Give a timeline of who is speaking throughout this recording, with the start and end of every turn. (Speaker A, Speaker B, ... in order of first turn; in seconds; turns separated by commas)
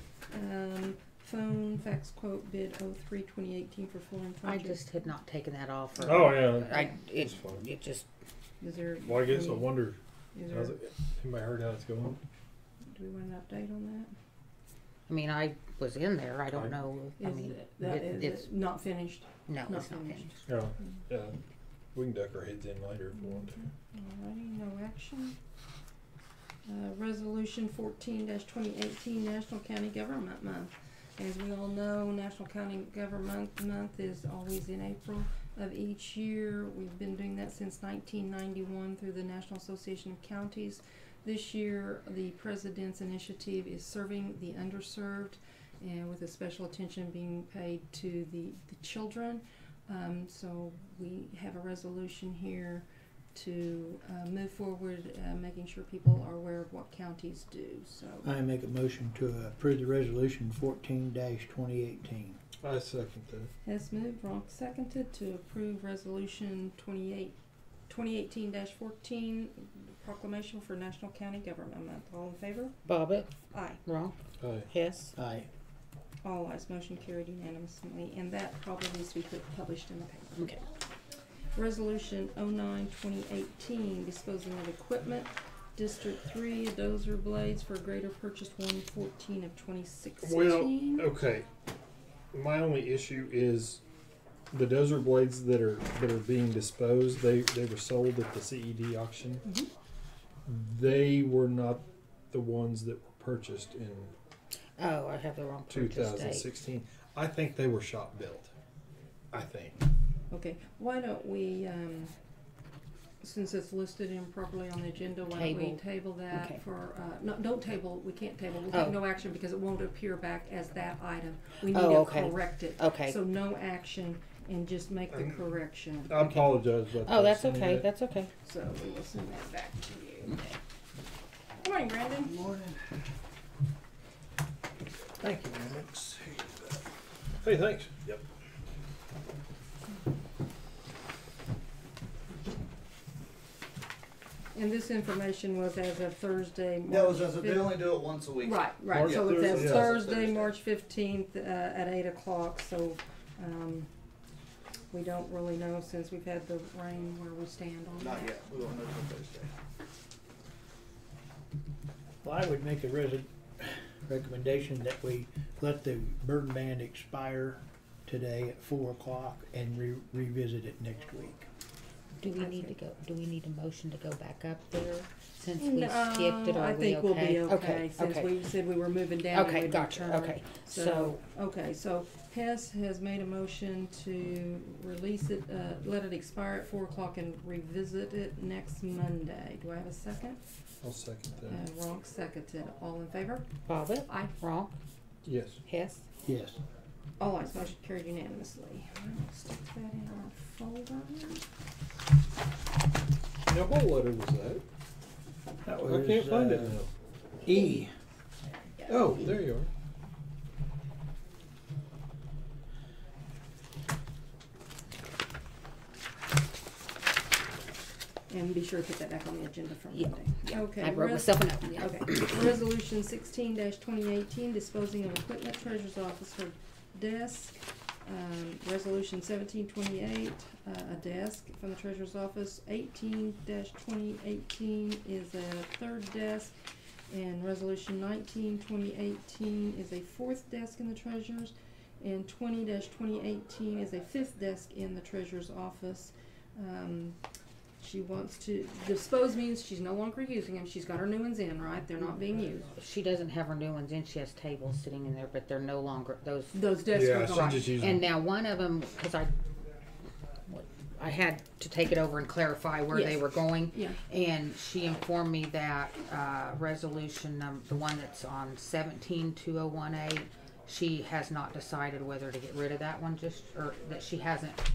Speaker A: 0.3-4.8, Speaker B: 4.4-8.1, Speaker C: 6.0-7.6, Speaker A: 8.6-9.8, Speaker C: 9.1-12.2, Speaker A: 10.3-10.8, Speaker A: 12.9-14.1, Speaker B: 15.1-18.5, Speaker A: 17.2-20.4, Speaker B: 19.5-20.3, Speaker C: 20.5-21.4, Speaker C: 21.9-23.7, Speaker A: 23.2-25.4, Speaker A: 26.7-58.3, Speaker D: 58.2-62.4, Speaker C: 62.6-63.5, Speaker A: 63.6-67.3, Speaker A: 67.9-72.8, Speaker B: 72.8-73.3, Speaker A: 73.5-73.8, Speaker B: 73.8-74.2, Speaker C: 74.4-74.7, Speaker B: 74.7-75.1, Speaker D: 75.2-75.5, Speaker A: 76.2-80.5, Speaker B: 80.3-80.6, Speaker A: 81.5-91.1, Speaker C: 90.2-91.5, Speaker C: 92.3-93.8, Speaker C: 94.5-99.4, Speaker C: 100.5-104.1, Speaker B: 104.8-106.5, Speaker C: 105.7-108.5, Speaker C: 109.3-109.8, Speaker A: 110.3-112.1, Speaker A: 113.2-126.2, Speaker B: 115.3-116.6, Speaker B: 118.7-119.0, Speaker B: 121.7-123.2, Speaker C: 125.1-125.4, Speaker C: 126.1-127.9, Speaker B: 127.0-128.3, Speaker A: 128.4-130.4, Speaker A: 131.6-132.4, Speaker D: 135.2-136.7, Speaker C: 137.4-138.0, Speaker A: 144.5-153.9, Speaker E: 146.9-150.5, Speaker C: 148.9-150.0, Speaker A: 154.9-158.3, Speaker E: 158.0-159.5, Speaker D: 162.2-171.5, Speaker B: 172.2-178.3, Speaker A: 172.4-172.8, Speaker A: 175.6-190.4, Speaker B: 179.3-181.2, Speaker C: 190.8-191.6, Speaker A: 191.5-193.5, Speaker B: 193.7-194.8, Speaker A: 194.1-194.3, Speaker C: 195.2-195.6, Speaker B: 195.7-196.0, Speaker D: 196.2-196.6, Speaker A: 197.2-201.4, Speaker C: 203.5-204.6, Speaker D: 205.7-206.8, Speaker C: 205.8-206.9, Speaker D: 207.5-207.9, Speaker A: 207.5-207.9, Speaker A: 208.8-209.2, Speaker C: 208.9-209.7, Speaker A: 218.3-236.5, Speaker B: 219.9-222.4, Speaker A: 237.1-247.2, Speaker A: 247.8-252.7, Speaker B: 252.8-256.5, Speaker A: 256.5-257.8, Speaker C: 256.9-258.1, Speaker B: 257.7-259.3, Speaker B: 260.5-274.6, Speaker A: 262.9-264.0